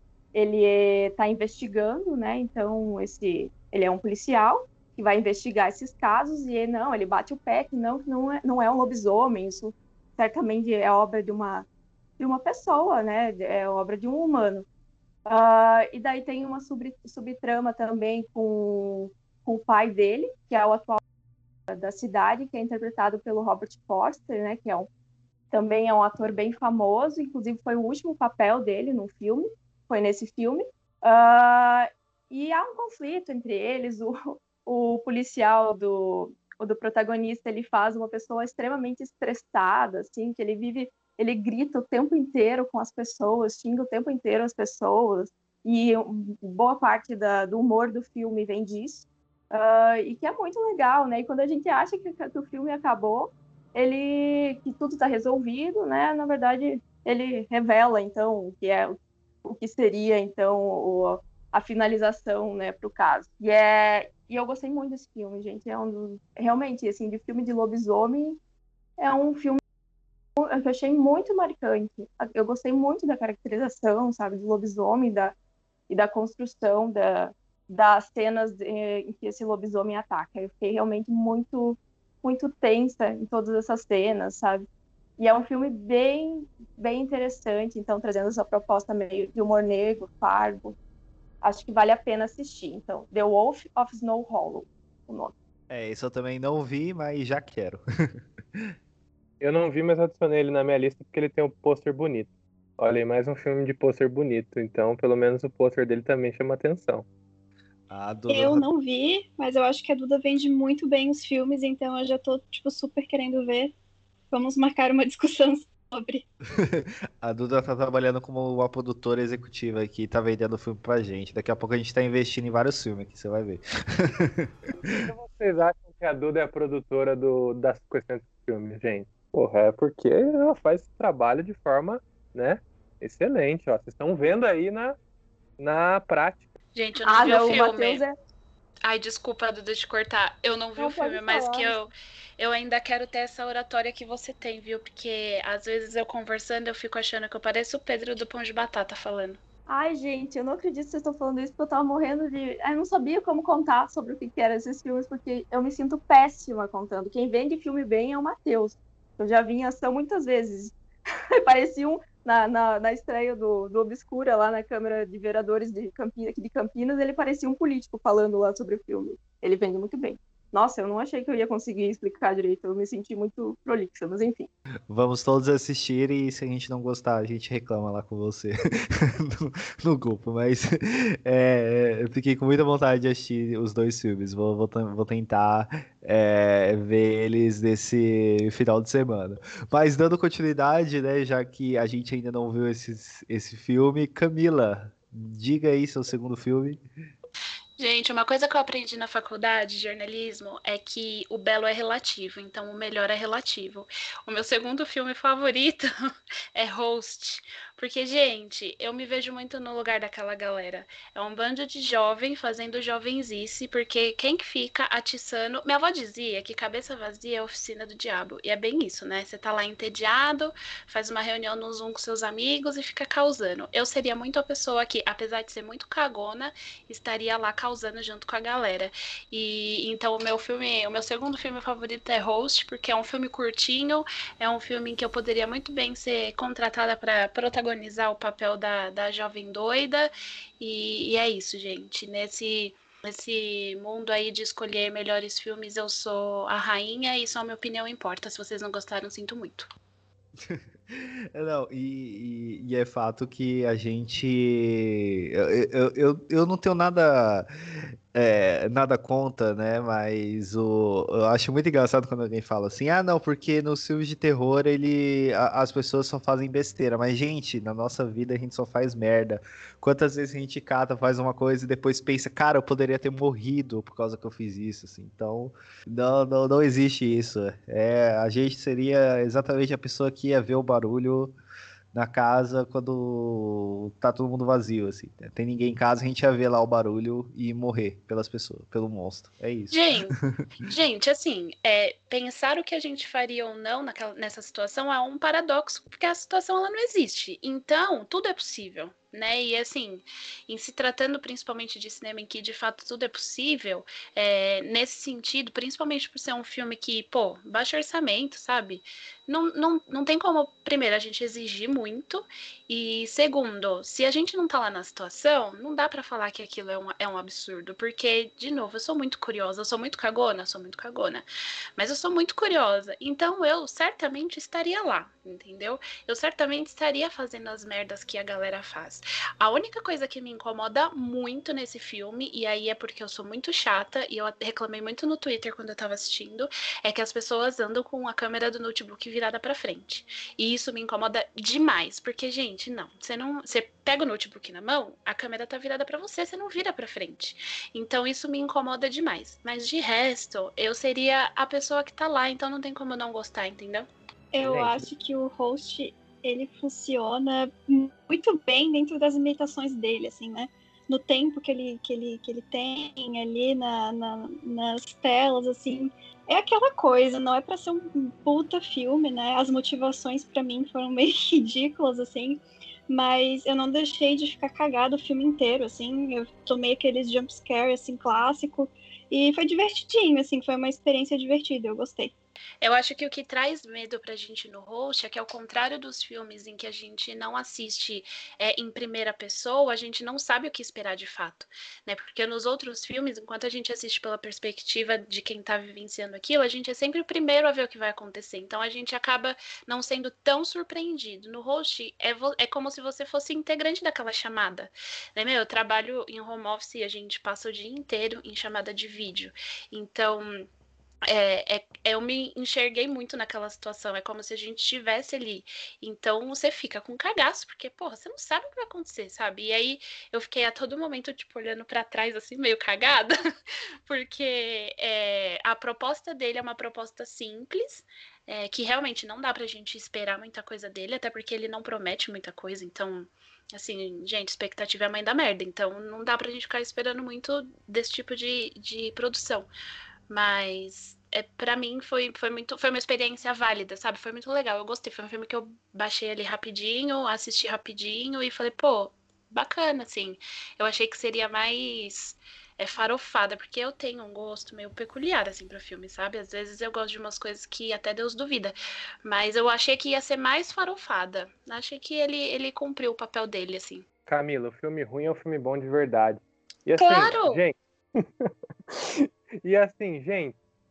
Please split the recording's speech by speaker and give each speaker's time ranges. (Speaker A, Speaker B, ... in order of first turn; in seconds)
Speaker A: 0.3-11.6, 12.2-14.7, 15.2-21.0, 21.7-24.9, 25.5-68.4, 69.0-69.6, 70.4-75.3, 75.9-84.7, 85.2-90.8, 91.4-95.3, 137.1-138.1, 140.8-141.8, 149.7-160.7, 161.4-174.5
Speaker B: 95.7-97.8, 107.9-108.7, 116.5-124.9, 174.9-196.8, 250.4-257.5, 258.1-281.3, 281.9-290.4, 354.4-354.8
Speaker C: 99.4-107.0, 124.9-135.0, 135.6-136.4, 464.1-470.3
Speaker D: 108.3-113.7, 114.3-116.2, 354.3-382.1
Speaker E: 136.7-138.0, 138.8-149.4, 197.8-205.9, 206.5-249.7, 289.7-321.2, 321.8-353.9, 382.6-410.4, 411.1-423.1, 423.9-439.5, 440.1-463.8, 466.7-467.4